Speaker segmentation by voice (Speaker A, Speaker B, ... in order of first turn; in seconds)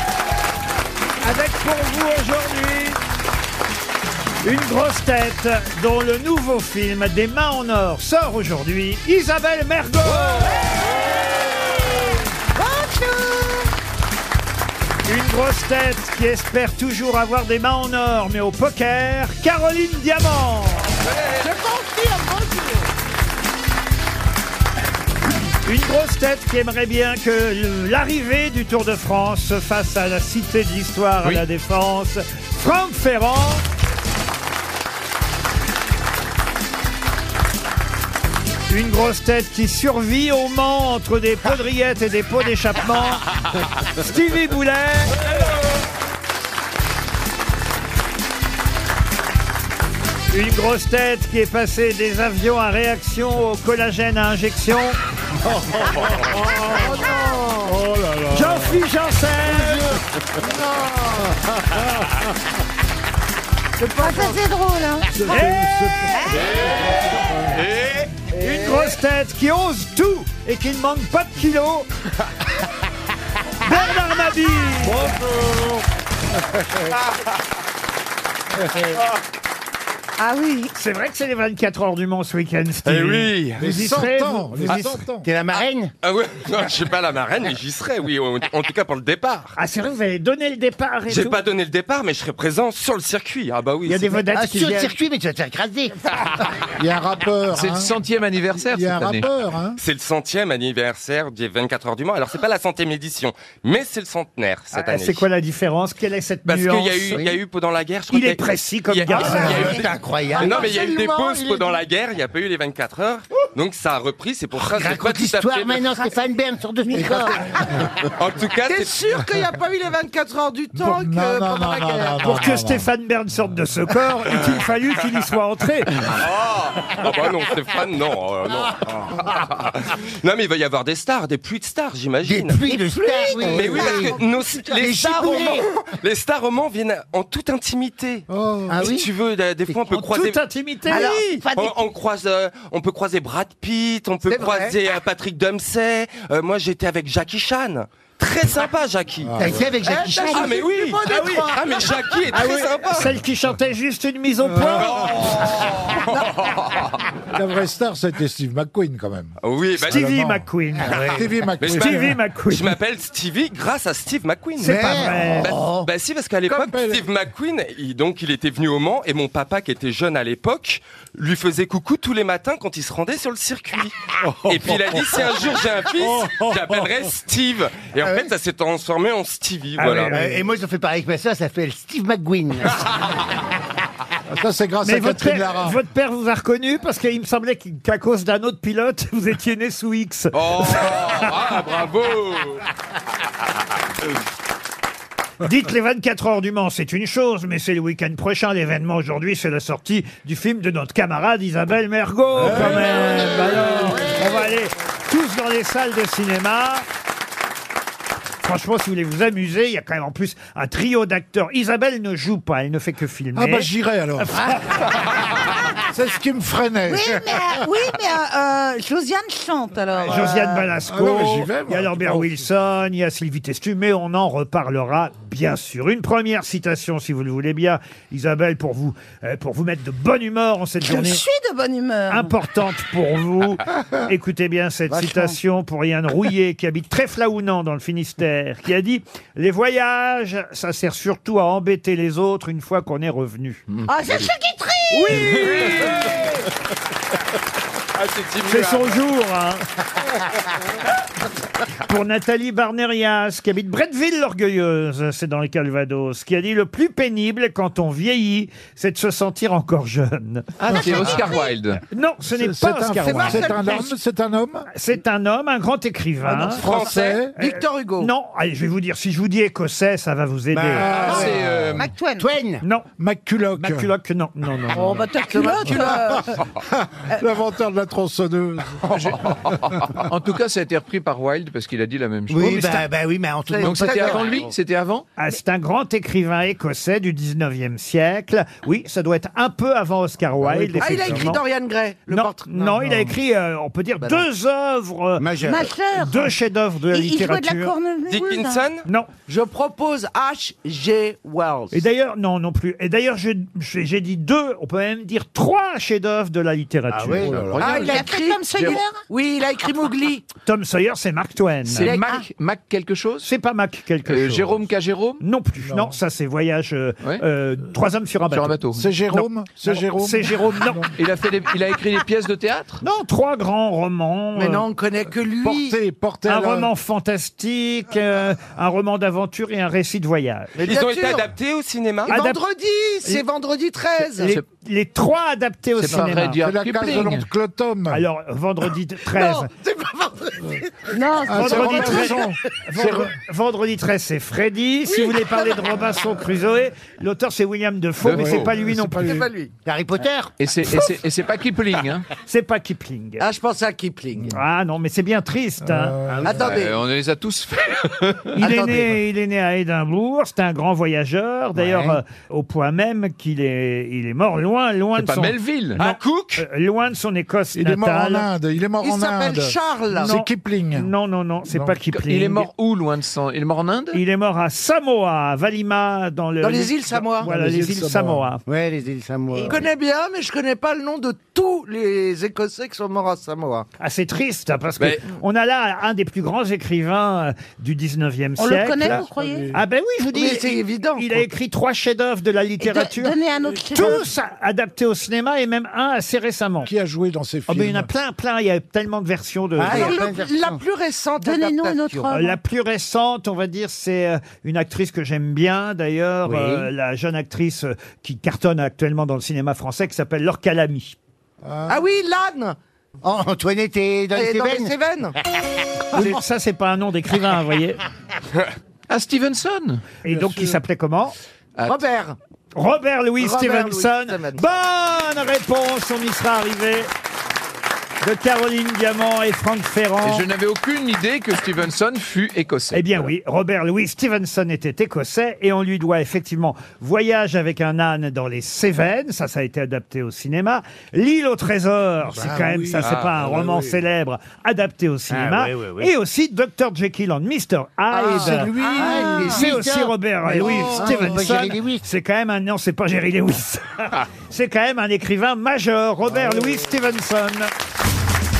Speaker A: 1.2-3.0, 4.4-10.5, 15.1-20.9, 25.6-33.6, 38.7-43.2, 43.9-45.2, 50.3-55.0, 58.3-59.8, 65.3-65.7, 68.4-71.9, 73.6-75.1, 80.7-85.0, 89.5-91.4, 93.8-94.9, 104.7-107.2, 108.1-109.7, 122.2-126.0, 139.9-141.1, 152.3-154.9, 159.9-161.0, 161.7-162.7, 164.6-165.5, 179.8-180.4, 184.8-191.3, 195.4-206.8, 208.4-213.7, 214.2-214.7, 220.1-231.2, 232.1-243.6, 244.9-245.7, 248.4-249.7, 251.8-261.3, 261.9-263.6, 264.7-266.7, 267.4-271.0, 272.6-272.9, 273.5-275.0, 285.2-291.4, 292.1-295.3, 295.9-297.7, 298.9-299.1, 301.7-307.3, 310.4-311.9, 313.2-314.6, 315.2-318.6, 319.1-320.9, 322.8-324.6, 326.3-330.6, 332.1-332.4, 334.2-336.4, 337.9-339.5, 341.4-349.1, 352.2-353.2, 354.3-355.9, 358.3-368.3, 370.0-372.5, 373.9-378.4, 383.8-393.1, 393.7-396.7, 397.5-400.0, 402.1-411.0, 415.9-417.8, 420.0-421.1, 422.5-426.9, 428.0-430.2, 432.7-448.5, 449.1-457.5
Speaker B: 10.3-11.8, 12.5-13.7, 21.4-22.9, 56.7-57.8, 63.8-64.4, 68.5-68.8, 110.3-111.7, 118.6-122.4, 144.2-144.7, 149.8-152.0, 263.0-263.9, 266.8-268.1, 275.3-276.1, 283.4-284.5, 290.8-292.8, 299.3-301.8, 307.6-310.3, 311.8-312.1, 324.3-325.8, 330.6-331.3, 332.0-334.4, 339.1-340.9, 344.9-345.5, 349.0-349.5, 353.2-354.3, 356.2-356.7, 358.4-358.8, 368.8-370.1, 376.4-377.3, 379.5-383.7, 390.1-391.2, 399.6-402.1, 411.7-412.6, 414.1-415.1, 421.6-422.2, 423.2-424.5
Speaker C: 21.1-21.4, 56.0-56.3, 66.3-66.9, 67.5-68.1, 82.8-83.7, 86.0-89.5, 91.1-94.2, 99.8-105.2, 106.5-115.9, 118.0-118.9, 126.1-132.6, 133.3-138.3, 138.8-149.6, 150.3-153.1, 154.8-157.0, 159.4-160.0, 161.6-180.1, 190.3-192.6, 245.2-246.3, 247.9-249.0, 266.6-267.2, 298.1-298.8, 330.6-332.2, 365.8-366.4, 442.8-443.1
Speaker D: 55.4-57.0, 57.6-58.8, 59.5-60.0, 61.0-62.3, 65.1-67.6, 74.8-75.8, 76.6-76.9, 83.5-85.3, 96.8-97.9, 98.5-99.8, 120.7-122.9, 133.5-133.9, 138.3-138.9, 149.2-149.7, 154.4-155.4, 157.3-162.2, 166.5-167.0, 174.2-175.0, 176.0-176.8, 184.3-185.8, 202.4-204.0, 213.3-214.5, 215.9-217.5, 220.8-222.5, 260.8-261.2, 262.3-264.7, 266.2-267.4, 270.7-271.7, 273.0-273.9, 275.7-280.0, 290.4-291.4, 292.8-293.1, 307.1-307.9, 315.6-316.0, 318.7-320.9, 325.3-326.7, 336.4-338.0, 341.2-343.1, 348.0-349.3, 355.6-356.6, 361.6-362.0, 367.5-370.9, 377.0-378.2, 388.8-389.6, 396.6-397.9, 411.4-411.8, 420.1-420.6, 442.1-443.8, 447.9-449.4, 450.3-451.3, 456.1-456.6
Speaker E: 64.0-65.5, 66.1-67.1, 80.2-80.7, 116.9-117.2, 140.9-141.8, 216.9-220.7, 230.8-232.3, 234.9-235.3, 243.8-245.6, 271.0-272.3, 274.7-276.4, 295.4-296.4, 296.9-298.6, 307.8-309.0, 311.9-312.2, 340.9-342.2, 379.3-379.7, 388.4-389.5, 392.6-394.0, 399.8-400.1, 401.2-402.4, 448.6-449.5
Speaker F: 85.2-85.9, 94.3-96.0, 109.1-110.7, 114.5-117.4, 132.2-134.2, 134.7-135.7, 138.7-139.1, 149.4-150.6, 160.8-161.3, 164.6-165.9, 178.0-178.3, 180.1-182.9, 202.4-204.5, 270.5-271.2, 272.2-272.6, 282.3-284.5, 295.2-295.7, 306.9-307.6, 349.6-350.3, 356.1-356.6, 378.4-379.6, 399.6-400.6, 406.2-406.7, 413.0-414.7, 445.1-445.9, 448.7-451.9
Speaker G: 97.5-99.3, 260.6-261.8, 270.9-271.9, 278.8-282.9, 283.6-285.1, 307.5-308.1, 311.7-313.3, 314.1-315.2, 318.3-318.9, 320.9-322.8, 335.8-337.3, 350.4-352.1, 356.4-358.3, 365.0-365.8, 371.9-374.0, 418.9-419.9, 430.0-433.1